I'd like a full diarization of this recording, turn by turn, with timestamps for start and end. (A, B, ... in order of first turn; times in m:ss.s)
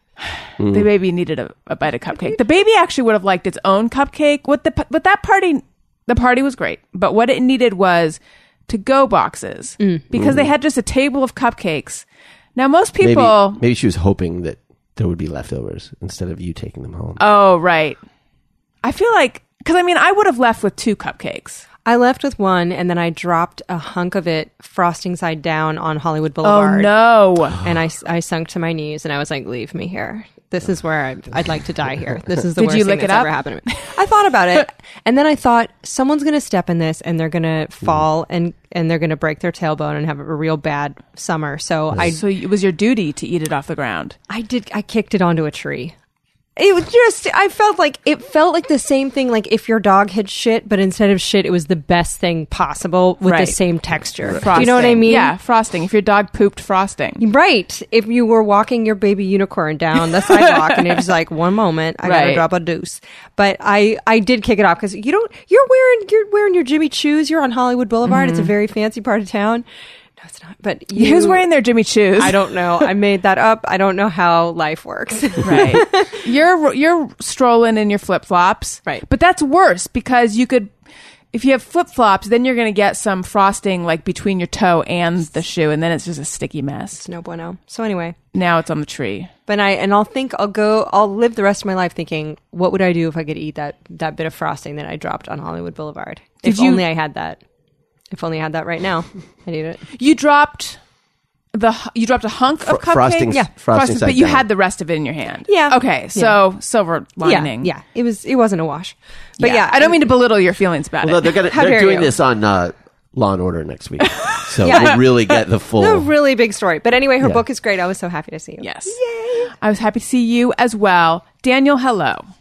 0:00.3-0:12.0 A
0:00.6-0:00.9 B
0:09.8-0:10.1 C
0:10.1-0:10.5 B
0:12.6-0:13.6 A
0:13.0-0:17.2 B
0:17.2-0:18.0 A
0:18.8-0:21.6 A
0:21.8-0:26.9 C
0:26.4-0:27.6 A
0:27.6-0:42.2 C
0:32.6-0:33.8 A
0:42.0-0:44.2 A
0:44.3-0:45.9 C
0:46.6-0:55.3 C
0:53.2-0:53.6 A
0:54.2-0:54.7 B
0:54.4-0:57.2 A
0:57.2-1:09.6 C
1:00.4-1:00.8 A
1:02.0-1:02.4 A
1:08.0-1:08.5 A
1:10.2-1:11.4 C
1:11.0-1:12.8 A
1:12.2-1:16.2 C
1:15.4-1:20.7 A
1:21.3-1:27.0 A
1:27.0-1:28.2 C
1:28.3-1:29.3 A
1:29.5-1:37.4 C
1:36.4-1:36.8 A
1:38.1-1:39.8 C
1:39.9-1:40.8 A
1:41.5-1:47.7 A
1:42.6-1:44.5 B
1:45.5-1:46.4 C
1:47.2-1:50.1 C
1:49.4-1:51.3 A
1:51.0-1:56.1 B
1:51.5-1:52.1 C
1:54.1-1:55.0 A
1:54.6-1:55.0 C
1:55.8-1:59.5 C
1:58.6-1:59.0 A
1:59.6-2:02.2 A